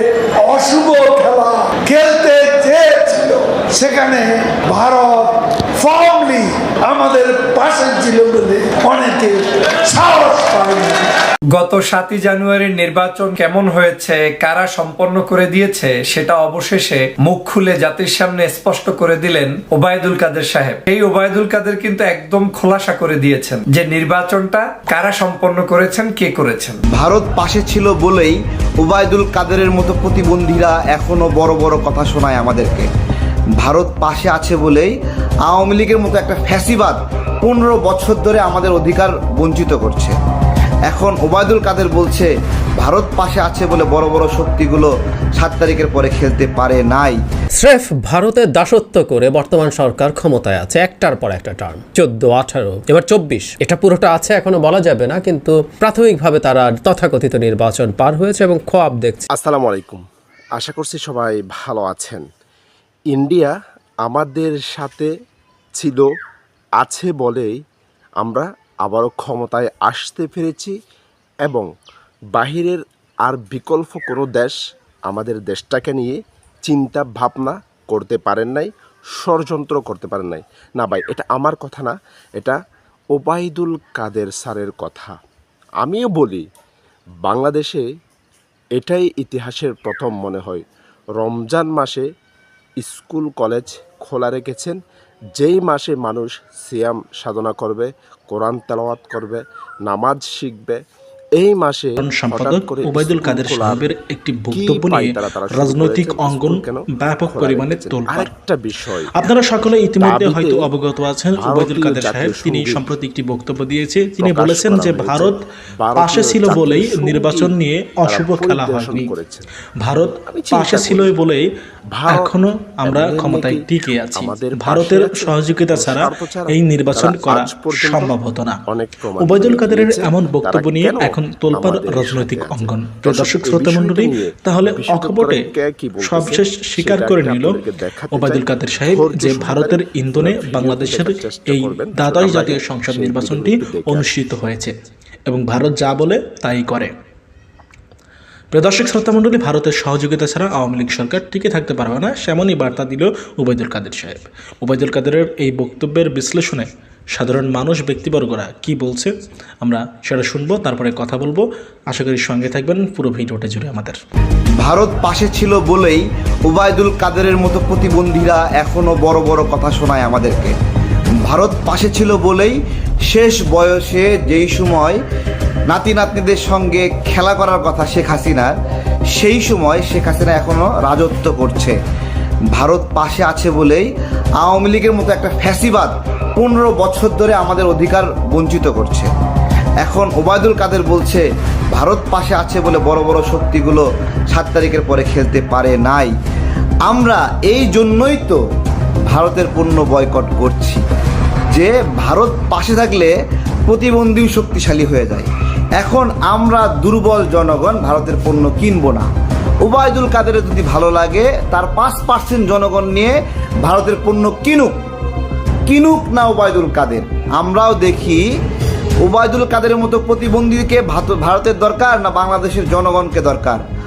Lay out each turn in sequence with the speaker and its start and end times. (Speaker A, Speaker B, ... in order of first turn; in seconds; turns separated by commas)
Speaker A: 0.4-11.1, Speaker B: 11.5-26.8, Speaker C: 26.9-32.9, Speaker C: 33.6-34.9, Speaker C: 35.4-40.1, Speaker C: 40.9-47.2, Speaker D: 47.6-59.3, Speaker E: 59.3-60.0, Speaker E: 60.6-62.2, Speaker E: 63.1-63.5, Speaker E: 64.0-65.1, Speaker E: 65.8-66.1, Speaker E: 66.8-67.6, Speaker E: 68.2-70.7, Speaker E: 72.3-74.6, Speaker E: 75.1-82.6, Speaker E: 83.1-85.1, Speaker E: 85.8-86.5, Speaker E: 87.2-87.8, Speaker E: 88.8-90.6, Speaker E: 91.2-92.0, Speaker E: 92.8-94.8, Speaker E: 95.3-100.8, Speaker E: 101.4-103.8, Speaker F: 102.0-108.3, Speaker E: 104.5-109.1, Speaker F: 109.2-115.3, Speaker E: 109.6-110.7, Speaker E: 111.4-112.9, Speaker E: 114.2-121.2, Speaker F: 116.0-119.1, Speaker F: 119.8-121.4, Speaker E: 121.9-128.2, Speaker F: 122.1-128.6, Speaker E: 128.7-144.1, Speaker F: 129.2-135.4, Speaker F: 136.0-144.7, Speaker F: 145.3-146.9, Speaker F: 148.5-159.1, Speaker F: 159.6-164.0, Speaker C: 164.6-170.5, Speaker C: 171.3-172.6, Speaker C: 173.1-175.0, Speaker C: 175.7-178.6, Speaker C: 179.1-181.8, Speaker C: 182.5-189.1, Speaker C: 189.8-196.1, Speaker C: 196.8-198.4, Speaker C: 199.1-200.8, Speaker C: 201.5-203.1, Speaker C: 203.7-209.1, Speaker C: 209.6-214.8, Speaker C: 215.7-218.2, Speaker C: 219.0-223.6